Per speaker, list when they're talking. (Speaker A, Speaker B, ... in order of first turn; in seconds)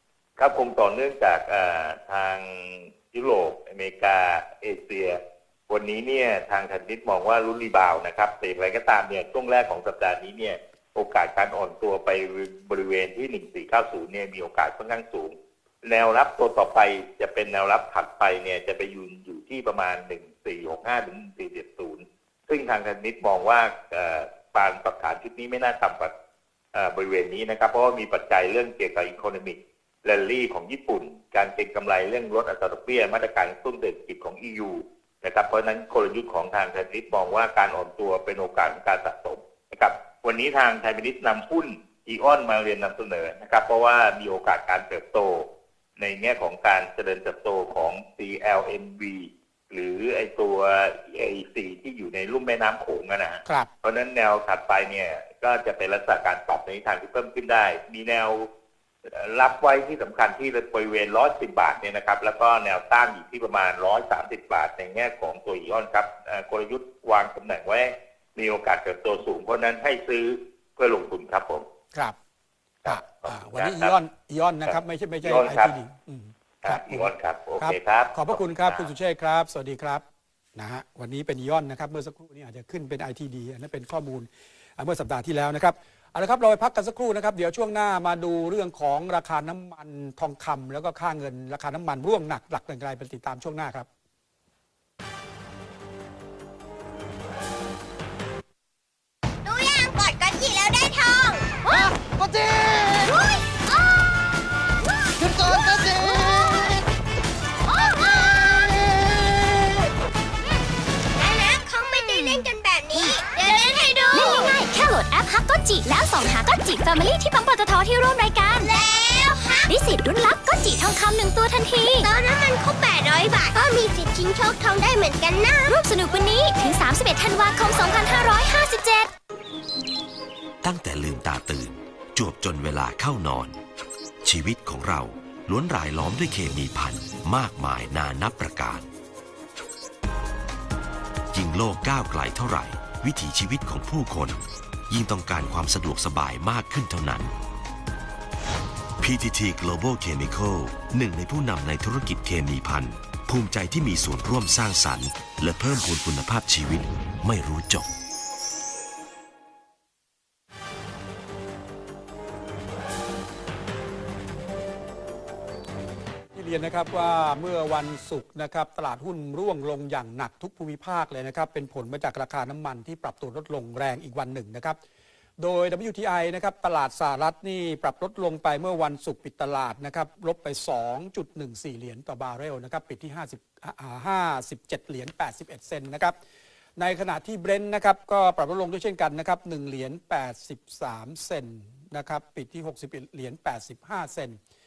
Speaker A: 0.4-26.1, 26.7-58.5, 59.1-71.7, 72.8-74.0, 74.7-75.7, 76.6-78.9
Speaker B: 72.8-77.1, 77.6-80.0, 80.5-93.9, 166.3-174.8, 175.4-186.1, 186.8-194.4
Speaker C: 99.4-101.6, 102.9-103.8, 105.3-106.8, 107.7-109.8, 111.2-114.6, 118.5-120.1, 121.8-125.9
Speaker D: 114.1-118.7, 119.7-122.0, 125.7-129.1
Speaker E: 130.6-133.6, 134.2-138.9, 141.3-147.3, 149.0-157.9